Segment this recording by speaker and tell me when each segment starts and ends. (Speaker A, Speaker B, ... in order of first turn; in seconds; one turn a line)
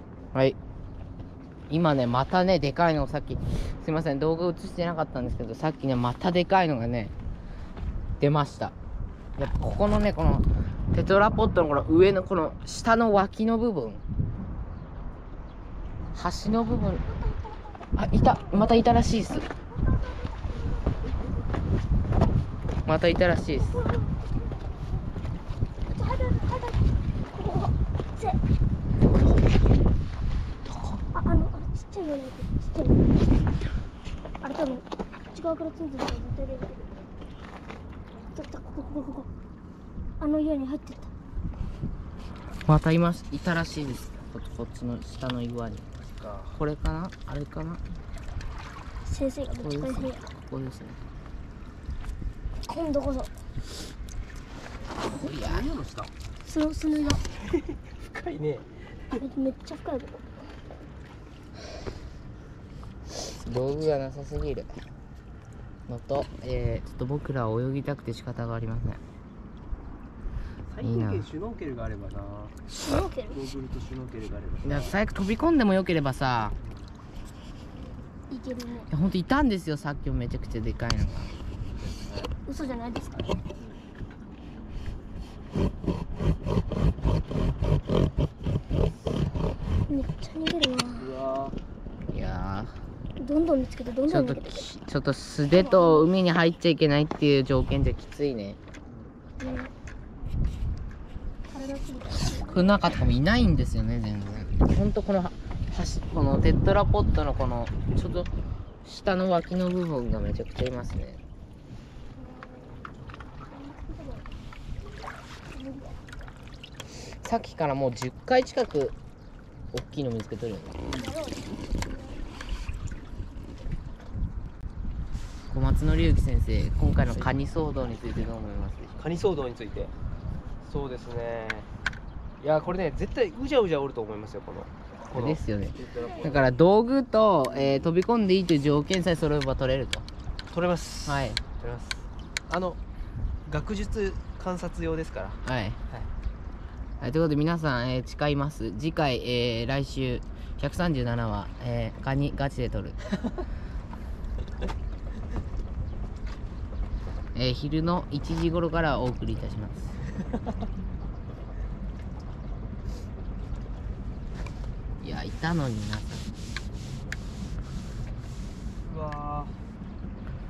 Speaker A: 1.7-7.1
Speaker A: 8.2-8.7
Speaker A: 9.4-14.0
Speaker A: 16.1-17.0
Speaker B: 17.0-19.1
Speaker A: 18.0-19.5
Speaker B: 19.7-20.9
Speaker A: 22.9-23.8
Speaker B: 23.7-24.4
Speaker B: 25.9-28.4
Speaker A: 30.7-31.0
Speaker B: 31.1-33.2
Speaker B: 34.4-36.9
Speaker B: 38.3-39.3
Speaker B: 40.2-41.1
Speaker A: 42.7-45.9
Speaker C: 46.0-46.6
Speaker A: 46.5-47.8
Speaker B: 49.0-50.3
Speaker A: 49.6-51.0
Speaker B: 52.7-53.3
Speaker A: 55.1-55.7
Speaker C: 55.2-56.1
Speaker B: 56.4-57.2
Speaker C: 58.1-58.8
Speaker B: 59.1-60.2
Speaker A: 63.2-64.7
Speaker A: 65.9-69.0
Speaker C: 70.7-72.5
Speaker A: 70.8-71.3
Speaker B: 72.8-73.4
Speaker C: 73.3-74.9
Speaker A: 74.6-76.5
Speaker B: 78.3-78.9
Speaker A: 78.9-81.3
Speaker C: 81.8-82.3
Speaker B: 82.4-83.3
Speaker B: 89.9-91.1
Speaker C: 91.0-91.5
Speaker A: 92.1-92.8
Speaker B: 93.2-94.7
Speaker A: 94.1-98.6
Speaker B: 95.5-96.1
Speaker B: 99.4-99.7
Speaker B: 101.5-102.7
Speaker A: 102.3-108.3
Speaker A: 108.8-111.2
Speaker B: 112.1-112.9
Speaker B: 113.5-114.3
Speaker B: 115.5-116.0
Speaker A: 116.9-118.9
Speaker A: 119.7-120.9
Speaker B: 120.9-122.4
Speaker A: 125.5-128.9
Speaker C: 127.1-127.4
Speaker C: 128.9-129.9
Speaker C: 130.6-131.7
Speaker C: 132.4-136.4
Speaker A: 135.1-140.1
Speaker C: 140.5-142.8
Speaker A: 141.1-141.4
Speaker C: 143.4-145.4
Speaker A: 145.4-145.8
Speaker A: 147.0-153.0
Speaker A: 157.3-159.9
Speaker A: 165.0-166.3
Speaker C: 168.8-169.5